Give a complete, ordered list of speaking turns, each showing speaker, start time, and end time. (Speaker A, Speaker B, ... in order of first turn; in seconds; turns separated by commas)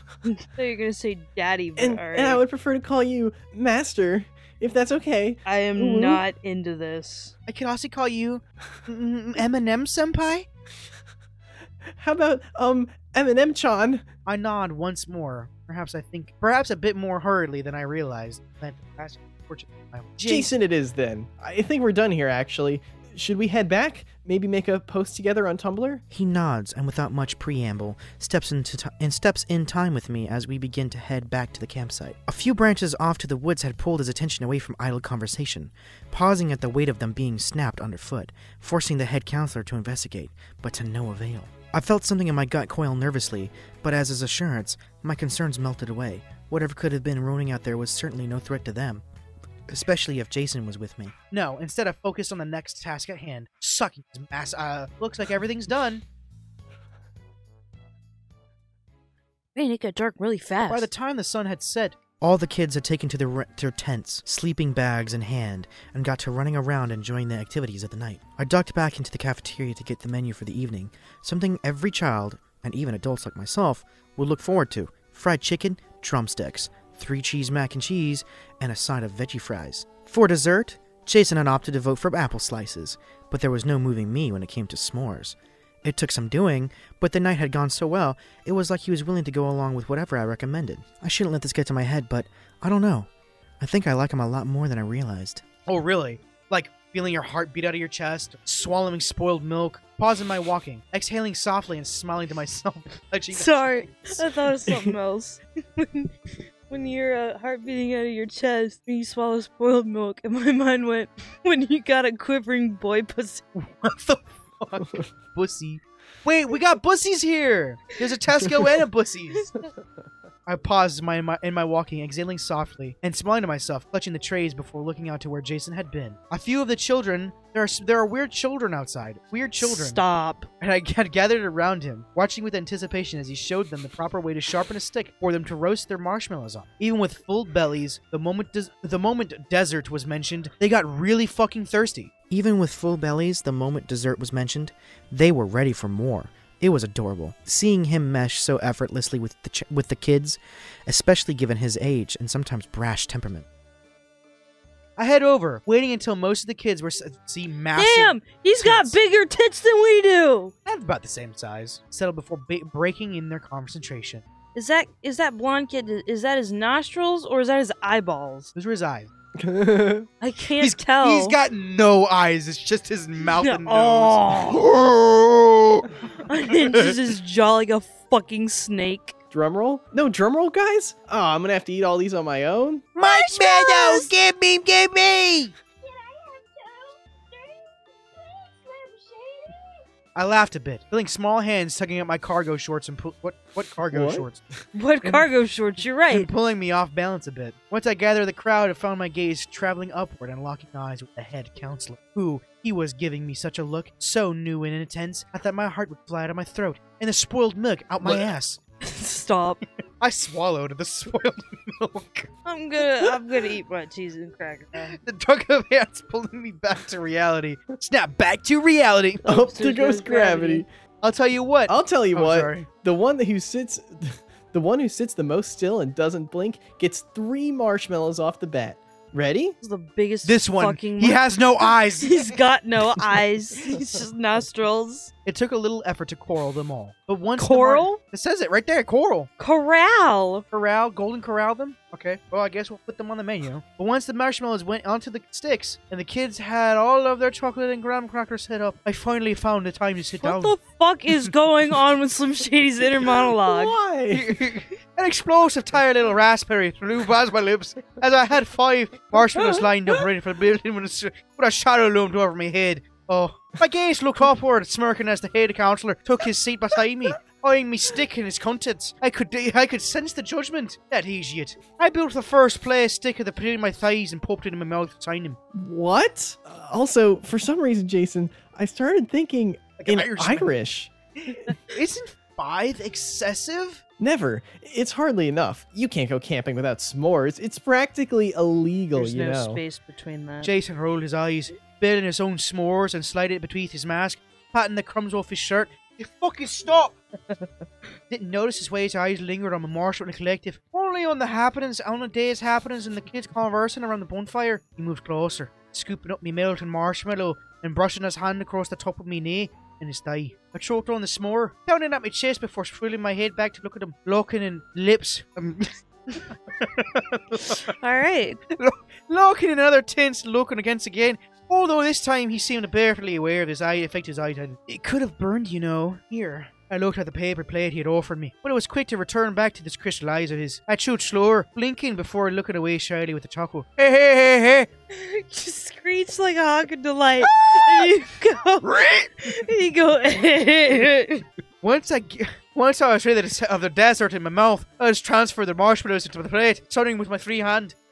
Speaker A: 0.2-2.4, Speaker B: 1.8-6.2, Speaker A: 5.4-7.3, Speaker C: 7.5-10.5, Speaker B: 12.0-14.0, Speaker C: 14.2-20.5, Speaker B: 20.2-26.0, Speaker D: 26.1-49.0, Speaker D: 49.7-51.1, Speaker C: 51.3-56.0, Speaker A: 59.5-60.9, Speaker C: 60.7-62.0, Speaker D: 62.2-93.1, Speaker D: 93.6-95.4, Speaker C: 95.7-104.2, Speaker A: 103.3-106.1, Speaker A: 106.7-113.4, Speaker C: 113.6-119.5, Speaker C: 120.5-130.0, Speaker A: 129.6-130.5, Speaker C: 130.6-142.1, Speaker D: 142.3-153.4, Speaker C: 155.0-158.9, Speaker A: 157.8-160.5, Speaker C: 160.7-164.2, Speaker A: 164.5-168.5, Speaker C: 168.5-169.1, Speaker B: 169.4-170.1, Speaker A: 170.2-171.4, Speaker C: 170.6-175.9, Speaker A: 173.3-174.6, Speaker A: 176.2-179.1, Speaker C: 176.6-176.9, Speaker B: 179.3-182.9, Speaker A: 182.9-184.1, Speaker C: 183.0-185.5, Speaker A: 185.8-189.6, Speaker C: 190.1-194.4, Speaker B: 193.9-194.6, Speaker A: 194.7-196.3, Speaker C: 196.1-208.6, Speaker A: 208.8-209.6, Speaker C: 210.0-212.3, Speaker A: 212.4-214.9, Speaker C: 214.7-219.2, Speaker A: 219.2-220.6, Speaker B: 219.2-220.7, Speaker C: 221.0-222.7, Speaker B: 221.7-229.6, Speaker A: 229.6-235.1, Speaker C: 230.2-232.4, Speaker C: 235.2-239.3, Speaker A: 237.4-238.0, Speaker A: 239.4-240.4, Speaker C: 240.5-250.5, Speaker A: 250.2-253.7, Speaker B: 253.4-254.3, Speaker C: 254.1-275.4, Speaker B: 259.1-260.0, Speaker B: 275.5-280.9, Speaker C: 279.8-280.5, Speaker C: 281.2-283.8, Speaker B: 284.0-289.6, Speaker A: 288.9-290.5, Speaker C: 290.4-296.9, Speaker C: 298.1-317.7, Speaker A: 317.8-318.4, Speaker C: 318.5-334.7, Speaker A: 334.9-341.2, Speaker C: 337.2-337.9, Speaker C: 338.6-339.4, Speaker C: 341.6-347.7